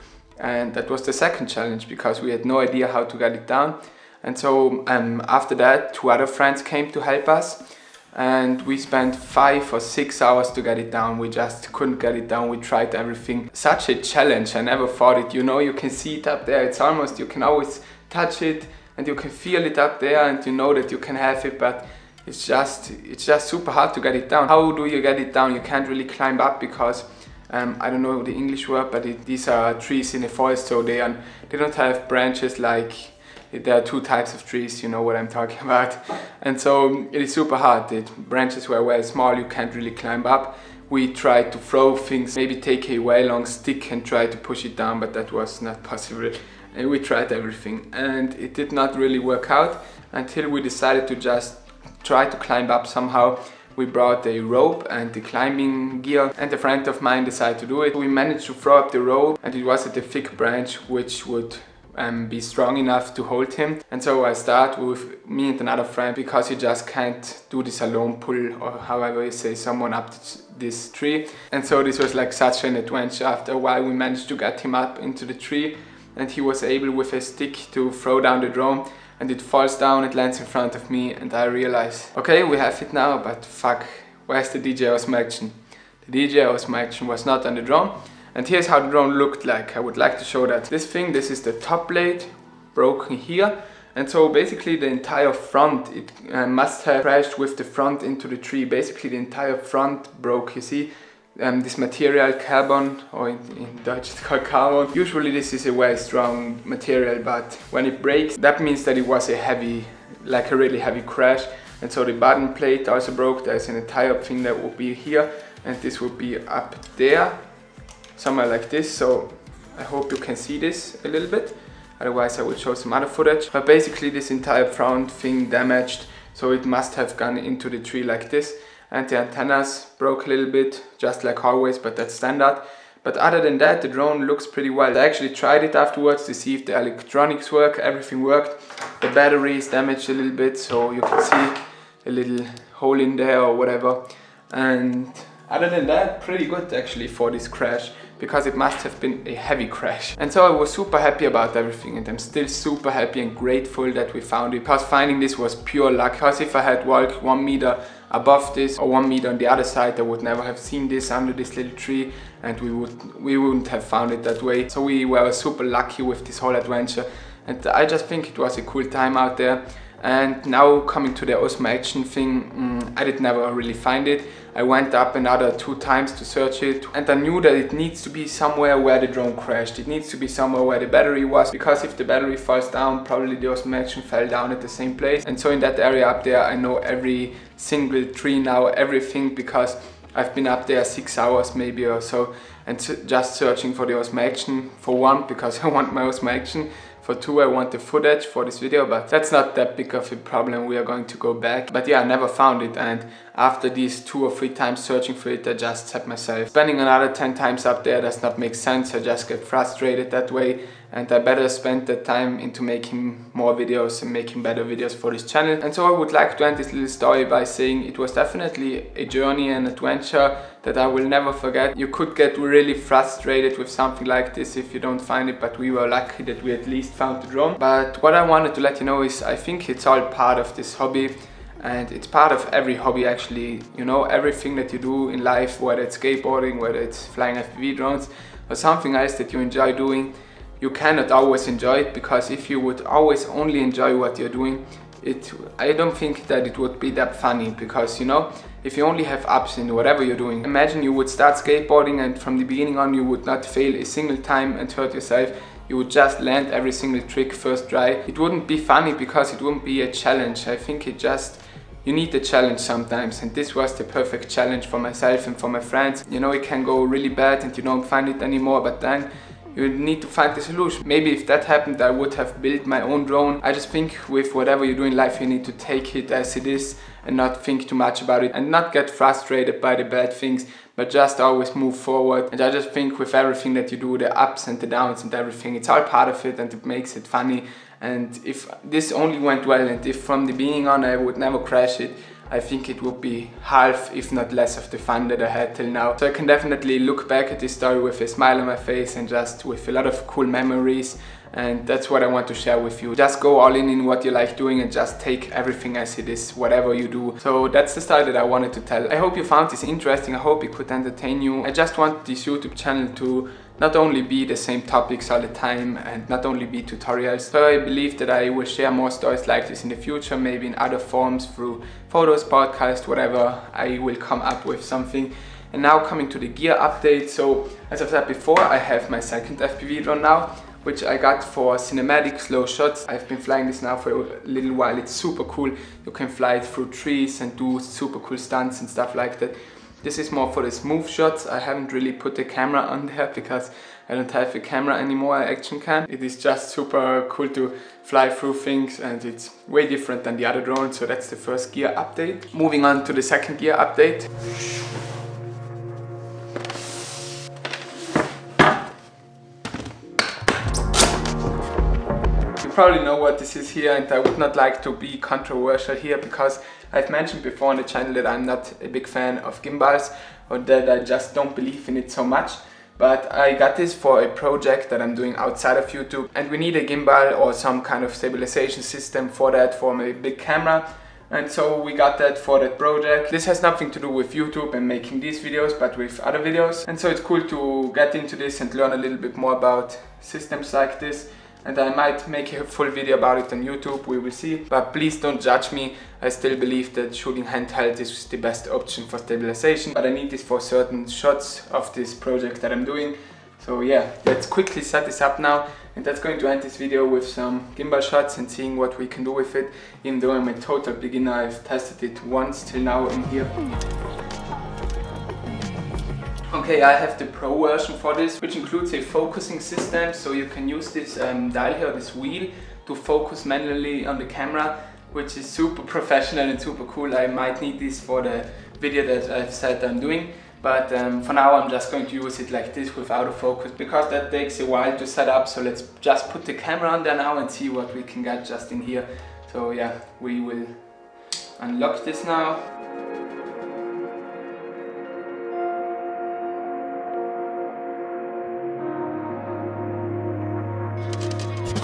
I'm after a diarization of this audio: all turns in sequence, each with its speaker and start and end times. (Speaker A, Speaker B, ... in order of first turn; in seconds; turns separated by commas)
Speaker A: 0.4-117.5, Speaker A: 118.2-354.1, Speaker A: 362.4-413.4, Speaker A: 416.3-442.5